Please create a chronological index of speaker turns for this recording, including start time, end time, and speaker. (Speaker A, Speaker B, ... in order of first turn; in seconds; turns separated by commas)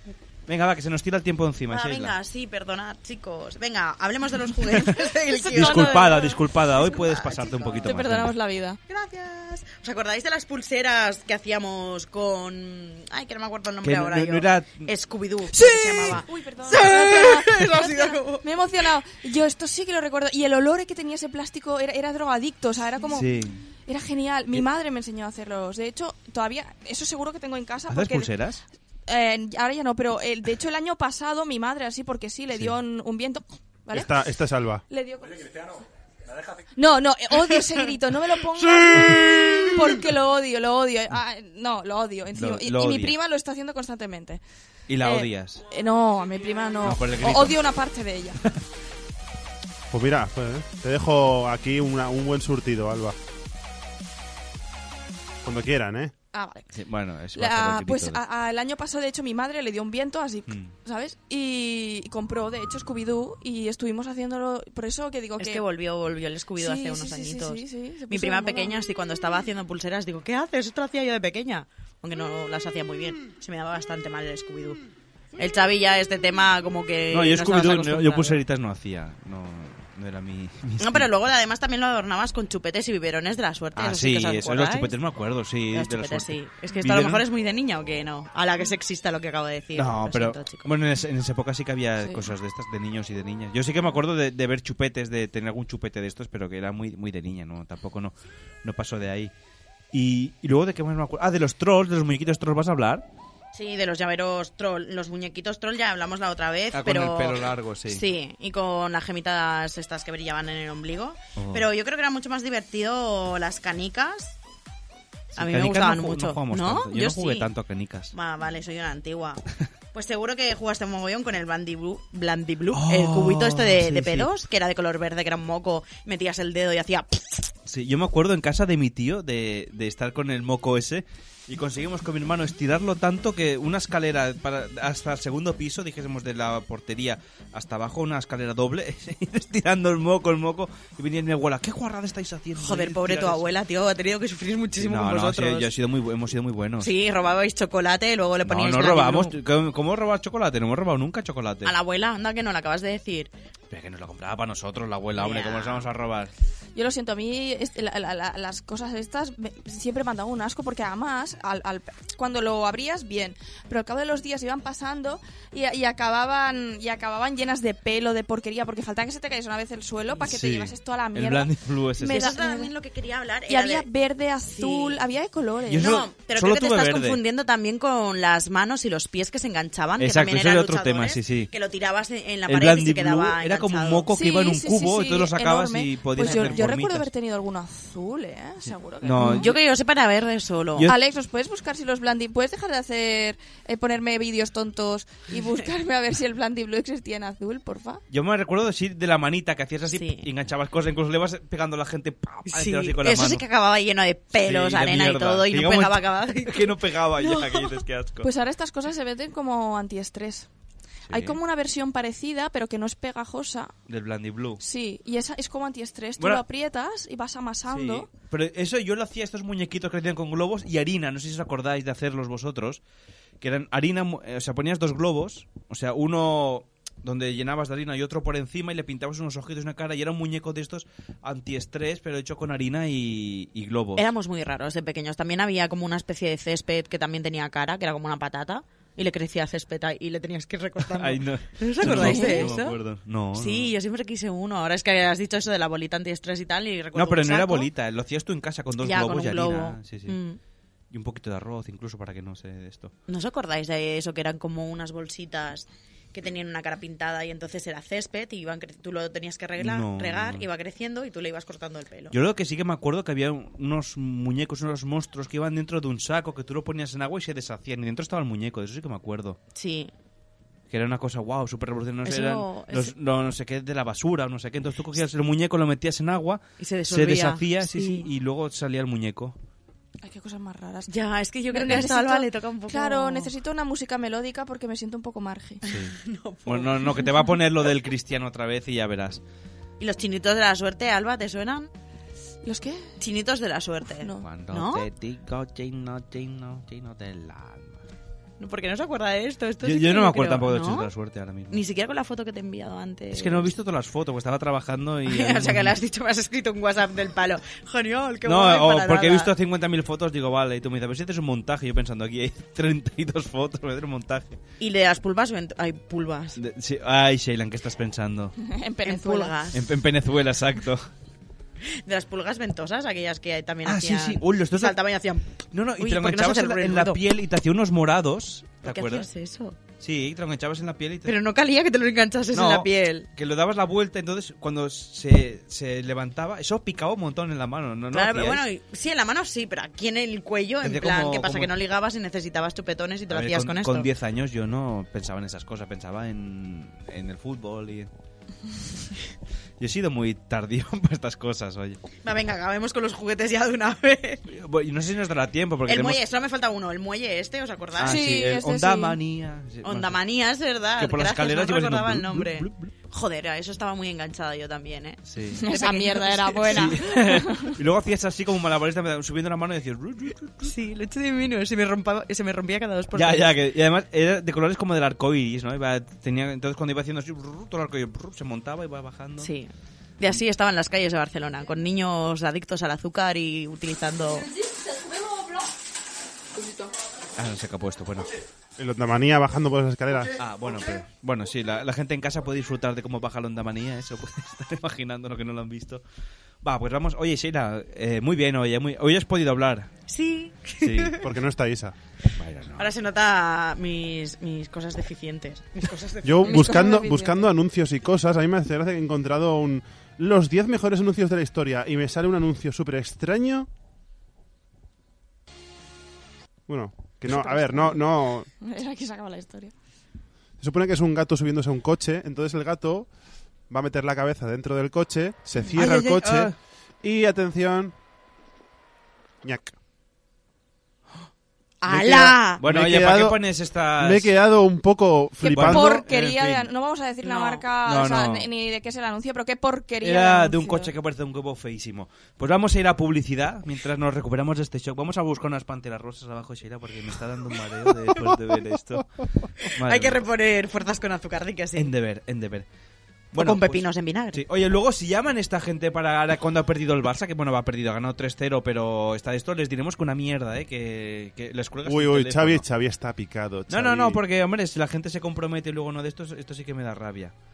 Speaker A: 0.5-2.1, Speaker B: 1.7-7.9, Speaker A: 4.7-8.3, Speaker C: 5.3-6.3, Speaker C: 7.8-8.8, Speaker B: 8.9-18.4, Speaker A: 13.8-14.9, Speaker C: 15.5-23.3, Speaker A: 23.1-23.6, Speaker C: 23.9-28.3, Speaker A: 27.9-28.6, Speaker C: 29.1-34.1, Speaker D: 33.9-34.8, Speaker C: 34.9-35.5, Speaker C: 36.7-44.4, Speaker A: 42.4-43.1, Speaker A: 44.9-45.6, Speaker C: 45.0-48.4, Speaker A: 46.8-47.6, Speaker D: 49.9-53.1, Speaker D: 55.4-56.1, Speaker C: 56.3-56.7, Speaker A: 56.7-58.2, Speaker C: 57.3-65.6, Speaker A: 60.5-60.7, Speaker B: 65.4-74.8, Speaker C: 66.6-68.7, Speaker B: 75.4-78.4, Speaker A: 77.1-81.1, Speaker B: 80.8-84.9, Speaker A: 83.7-87.2, Speaker B: 85.7-90.7, Speaker A: 89.7-99.3, Speaker B: 92.0-92.3, Speaker A: 99.9-103.0, Speaker B: 103.5-114.4, Speaker A: 106.7-108.0, Speaker A: 111.4-111.7, Speaker B: 115.3-117.5, Speaker A: 115.3-118.1, Speaker B: 118.1-119.4, Speaker B: 119.9-127.5, Speaker A: 122.7-124.3, Speaker A: 127.7-143.5, Speaker B: 142.6-145.7, Speaker A: 144.8-146.9, Speaker B: 146.8-149.3, Speaker A: 148.4-151.7, Speaker B: 151.6-153.3, Speaker A: 153.7-156.3, Speaker B: 155.1-155.9, Speaker C: 156.7-171.5, Speaker A: 170.2-172.4, Speaker C: 172.0-172.7, Speaker B: 172.0-173.9, Speaker C: 173.5-176.0, Speaker B: 174.5-175.0, Speaker A: 175.7-177.2, Speaker B: 175.7-184.1, Speaker A: 180.0-181.5, Speaker A: 182.4-187.1, Speaker C: 184.1-189.5, Speaker B: 186.2-186.7, Speaker A: 189.0-189.6, Speaker B: 189.2-190.9, Speaker C: 190.8-198.0, Speaker A: 198.1-203.4, Speaker B: 199.9-200.3, Speaker B: 202.5-207.8, Speaker A: 204.3-208.3, Speaker C: 208.2-210.5, Speaker A: 211.1-211.4, Speaker C: 211.1-213.7, Speaker A: 213.9-214.6, Speaker C: 214.6-218.1, Speaker A: 217.7-222.8, Speaker A: 223.4-234.1, Speaker B: 233.9-242.8, Speaker A: 240.9-243.7, Speaker C: 241.8-242.5, Speaker B: 243.3-247.7, Speaker A: 246.9-250.2, Speaker B: 248.8-250.4, Speaker A: 250.9-252.9, Speaker B: 253.1-262.1, Speaker A: 259.6-260.5, Speaker A: 262.1-269.4, Speaker B: 269.5-269.9, Speaker A: 270.7-279.4, Speaker B: 272.0-272.9, Speaker B: 276.6-278.1, Speaker C: 280.0-280.9, Speaker B: 280.9-283.3, Speaker C: 281.5-285.6, Speaker A: 281.6-281.9, Speaker A: 285.6-289.2, Speaker B: 285.6-287.1, Speaker B: 289.8-291.7, Speaker C: 292.4-292.9, Speaker B: 293.0-294.9, Speaker C: 294.0-294.2, Speaker A: 294.2-297.8, Speaker B: 298.4-300.9, Speaker A: 299.6-301.6, Speaker B: 301.5-303.5, Speaker A: 303.1-305.8, Speaker B: 305.1-309.3, Speaker A: 308.2-314.4, Speaker B: 314.6-316.4, Speaker A: 316.4-318.3, Speaker C: 318.4-319.3, Speaker B: 318.8-319.6, Speaker A: 319.5-320.9, Speaker B: 321.9-325.2, Speaker A: 323.6-324.8, Speaker A: 325.5-329.1, Speaker B: 325.8-327.0, Speaker B: 328.6-329.6, Speaker A: 329.8-331.2, Speaker B: 331.0-333.1, Speaker A: 332.3-338.5, Speaker B: 337.9-343.9, Speaker A: 340.6-341.6, Speaker A: 343.1-347.9, Speaker A: 349.6-351.8, Speaker B: 352.0-354.2, Speaker A: 354.3-356.0, Speaker B: 355.6-358.0, Speaker A: 357.8-360.0, Speaker C: 357.8-359.0, Speaker B: 359.6-366.8, Speaker A: 360.8-362.7, Speaker A: 365.0-365.5, Speaker C: 365.4-367.5, Speaker A: 366.5-370.5, Speaker B: 370.4-373.3, Speaker A: 372.9-379.3, Speaker B: 379.2-384.3, Speaker A: 387.2-388.1, Speaker D: 388.6-390.1, Speaker A: 390.2-395.8, Speaker A: 396.4-399.7, Speaker B: 399.9-401.0, Speaker A: 400.6-401.0, Speaker D: 401.0-401.7, Speaker A: 402.1-402.7, Speaker B: 402.6-406.6, Speaker D: 406.0-413.5, Speaker C: 406.2-407.3, Speaker D: 416.5-418.3, Speaker C: 417.1-417.8, Speaker C: 418.4-419.5, Speaker D: 420.4-422.9, Speaker D: 423.5-427.7, Speaker A: 425.5-426.4, Speaker D: 429.2-429.5, Speaker B: 431.6-432.4, Speaker A: 431.7-434.1, Speaker D: 432.4-433.2, Speaker D: 433.8-435.8, Speaker C: 435.2-440.7, Speaker A: 435.3-436.5, Speaker B: 437.0-437.4, Speaker A: 437.6-438.3, Speaker A: 439.8-448.9, Speaker A: 449.6-450.0, Speaker B: 449.6-451.7, Speaker A: 451.6-452.5, Speaker A: 453.1-462.4, Speaker B: 453.1-454.2, Speaker D: 461.6-464.0, Speaker A: 463.5-467.1